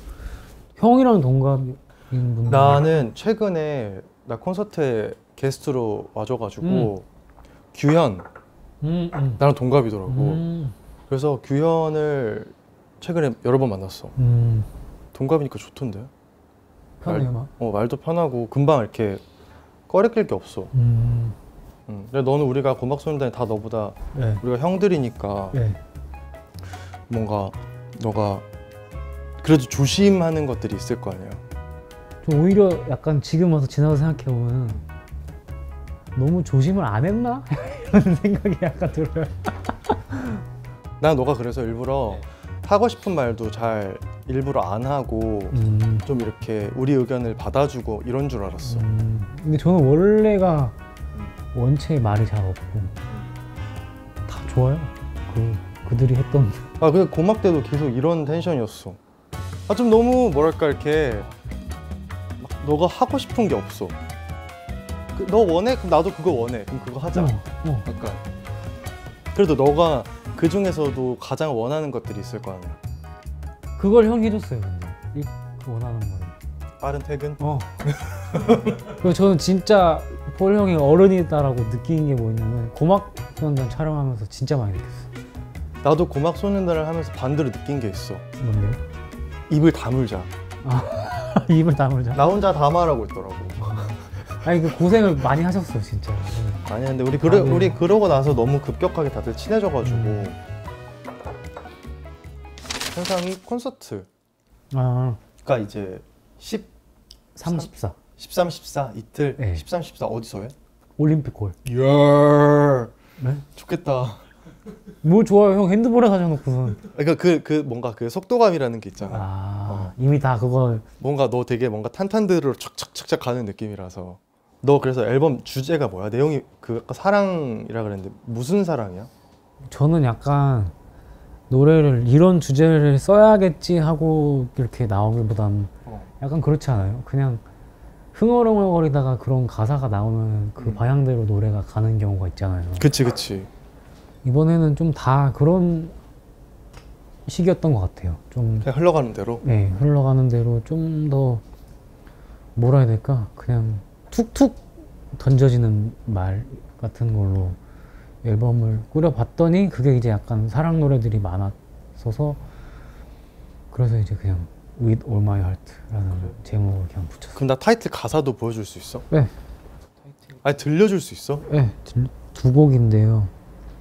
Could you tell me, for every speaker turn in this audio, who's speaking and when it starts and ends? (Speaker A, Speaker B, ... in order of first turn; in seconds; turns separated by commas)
Speaker A: 0.8-2.9, Speaker B: 2.5-7.0, Speaker A: 6.6-6.9, Speaker B: 7.7-8.2, Speaker A: 8.8-9.4, Speaker B: 9.4-10.4, Speaker A: 10.1-10.7, Speaker B: 11.1-14.1, Speaker A: 14.2-14.7, Speaker B: 15.1-16.1, Speaker A: 17.0-17.5, Speaker B: 17.1-19.2, Speaker B: 19.9-20.7, Speaker A: 20.7-21.4, Speaker B: 21.9-25.6, Speaker A: 24.1-24.4, Speaker A: 25.5-25.8, Speaker B: 27.1-28.4, Speaker B: 29.4-31.4, Speaker A: 32.2-34.8, Speaker A: 36.1-40.4, Speaker B: 41.0-48.9, Speaker A: 45.5-46.1, Speaker A: 48.7-50.8, Speaker A: 51.5-52.9, Speaker A: 54.3-56.7, Speaker B: 56.8-59.0, Speaker B: 59.7-61.3, Speaker B: 62.4-64.0, Speaker B: 65.1-68.2, Speaker A: 67.1-67.8, Speaker B: 69.3-72.8, Speaker A: 73.8-76.3, Speaker B: 76.8-78.8, Speaker A: 77.4-77.7, Speaker A: 78.9-85.1, Speaker B: 85.8-88.2, Speaker A: 88.4-88.8, Speaker B: 89.5-90.3, Speaker A: 90.6-92.3, Speaker B: 92.1-94.0, Speaker A: 93.6-97.8, Speaker B: 96.6-100.4, Speaker A: 99.8-100.3, Speaker B: 102.9-104.1, Speaker A: 104.7-105.2, Speaker B: 105.4-106.7, Speaker A: 107.3-108.0, Speaker B: 107.4-110.5, Speaker A: 109.4-109.6, Speaker A: 111.0-111.6, Speaker B: 111.6-112.9, Speaker A: 113.2-113.4, Speaker B: 113.5-114.2, Speaker A: 115.0-116.8, Speaker B: 116.9-119.9, Speaker A: 119.1-120.8, Speaker B: 121.0-129.1, Speaker A: 129.7-130.7, Speaker A: 131.5-137.4, Speaker A: 138.1-142.9, Speaker B: 142.8-143.5, Speaker A: 144.2-145.9, Speaker A: 147.2-148.7, Speaker B: 148.6-149.4, Speaker A: 149.4-151.4, Speaker A: 152.6-154.6, Speaker A: 155.1-157.6, Speaker A: 158.2-162.4, Speaker A: 163.7-167.4, Speaker B: 167.3-169.1, Speaker B: 170.4-171.5, Speaker A: 171.4-173.3